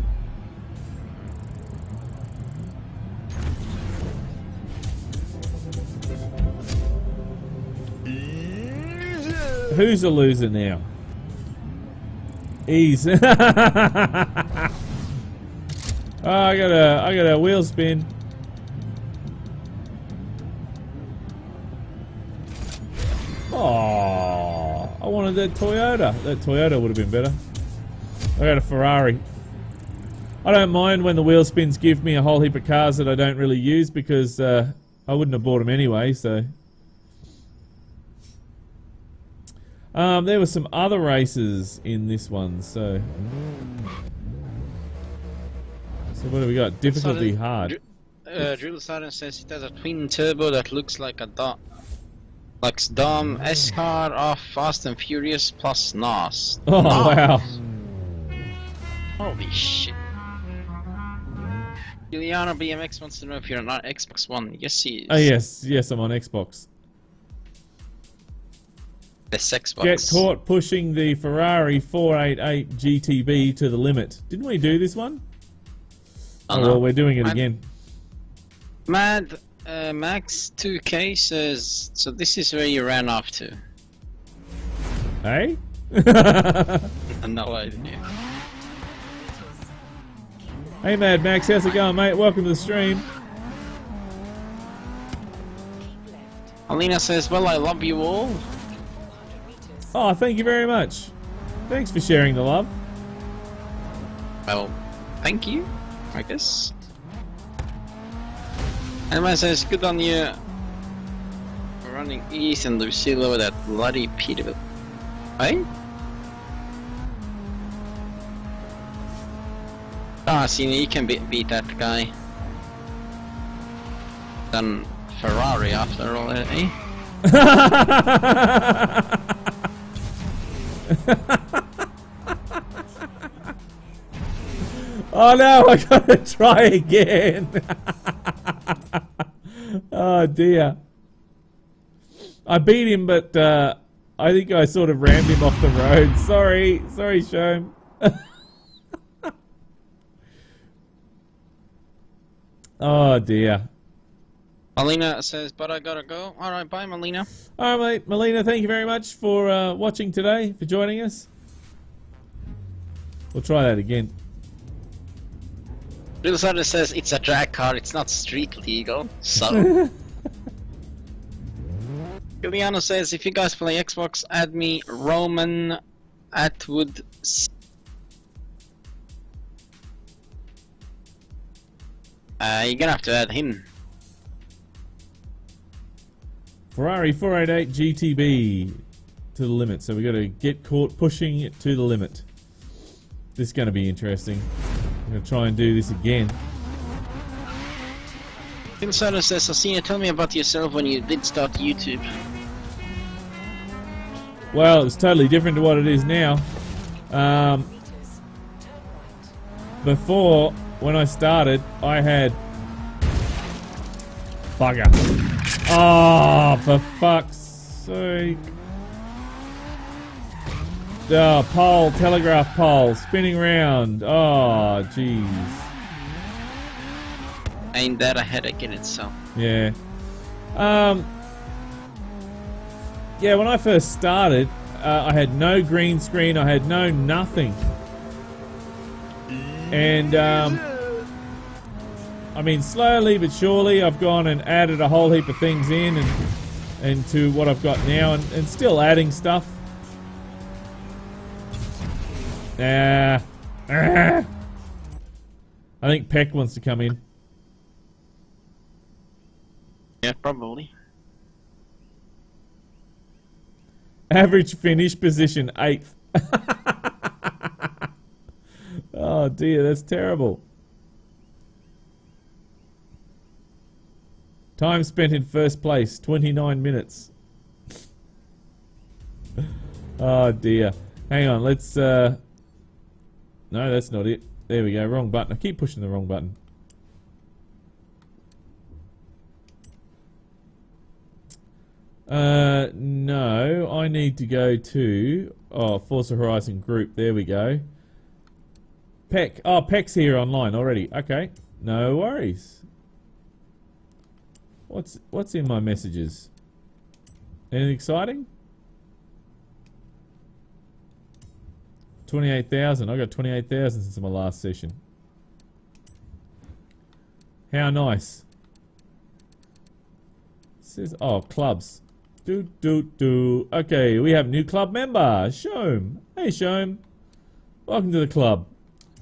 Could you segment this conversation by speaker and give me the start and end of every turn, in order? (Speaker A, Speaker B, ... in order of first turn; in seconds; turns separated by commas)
Speaker A: 9.7-10.9, Speaker A: 12.7-14.7, Speaker A: 16.2-18.1, Speaker A: 23.5-27.4, Speaker A: 28.4-29.2, Speaker A: 30.4-36.5, Speaker A: 39.9-43.1, Speaker A: 46.1-47.8, Speaker B: 46.9-51.6, Speaker B: 52.6-57.4, Speaker A: 56.7-57.5, Speaker B: 59.2-60.0, Speaker B: 62.1-65.3, Speaker A: 65.1-66.7, Speaker B: 69.3-70.3, Speaker A: 69.8-75.2, Speaker B: 76.5-77.4, Speaker A: 76.5-77.6, Speaker B: 78.9-83.6, Speaker A: 85.2-86.9, Speaker B: 87.2-88.0, Speaker C: 88.6-91.6, Speaker A: 90.8-93.1, Speaker C: 95.8-96.6, Speaker B: 96.7-98.5, Speaker C: 98.9-100.0, Speaker A: 99.9-101.1, Speaker A: 101.7-102.7, Speaker B: 104.5-106.7, Speaker C: 106.3-106.8, Speaker B: 109.1-110.4, Speaker B: 111.8-114.6, Speaker B: 115.4-115.7, Speaker B: 120.3-122.1, Speaker B: 124.5-126.8, Speaker A: 127.2-129.2, Speaker A: 130.9-131.7, Speaker A: 134.7-140.8, Speaker A: 142.4-148.3, Speaker A: 152.8-153.7, Speaker B: 154.8-157.3, Speaker A: 157.6-161.3, Speaker A: 163.3-164.1, Speaker B: 166.2-169.7, Speaker A: 169.5-169.9, Speaker B: 172.4-175.8, Speaker B: 176.3-177.5, Speaker B: 182.4-183.7, Speaker A: 186.7-188.8, Speaker A: 189.3-192.2, Speaker A: 193.4-194.5, Speaker A: 195.1-196.4, Speaker C: 198.2-199.0, Speaker B: 198.8-202.1, Speaker A: 204.5-206.5, Speaker C: 207.0-209.3, Speaker A: 207.1-207.7, Speaker A: 209.8-212.4, Speaker A: 214.6-215.0, Speaker A: 215.7-218.5, Speaker A: 221.1-225.7, Speaker B: 227.7-229.1, Speaker A: 229.3-229.8, Speaker A: 230.5-231.1, Speaker A: 233.2-237.6, Speaker A: 239.7-240.6, Speaker A: 242.3-246.2, Speaker A: 246.8-249.6, Speaker A: 252.6-254.3, Speaker A: 255.8-257.0, Speaker B: 260.0-260.7, Speaker A: 264.1-267.7, Speaker A: 268.9-270.4, Speaker A: 274.6-277.1, Speaker A: 279.4-282.2, Speaker A: 283.5-286.4, Speaker A: 292.1-297.6, Speaker A: 299.1-302.6, Speaker A: 304.7-306.3, Speaker A: 307.5-308.3, Speaker A: 312.1-314.8, Speaker A: 317.5-318.2, Speaker A: 320.6-326.8, Speaker A: 327.7-328.5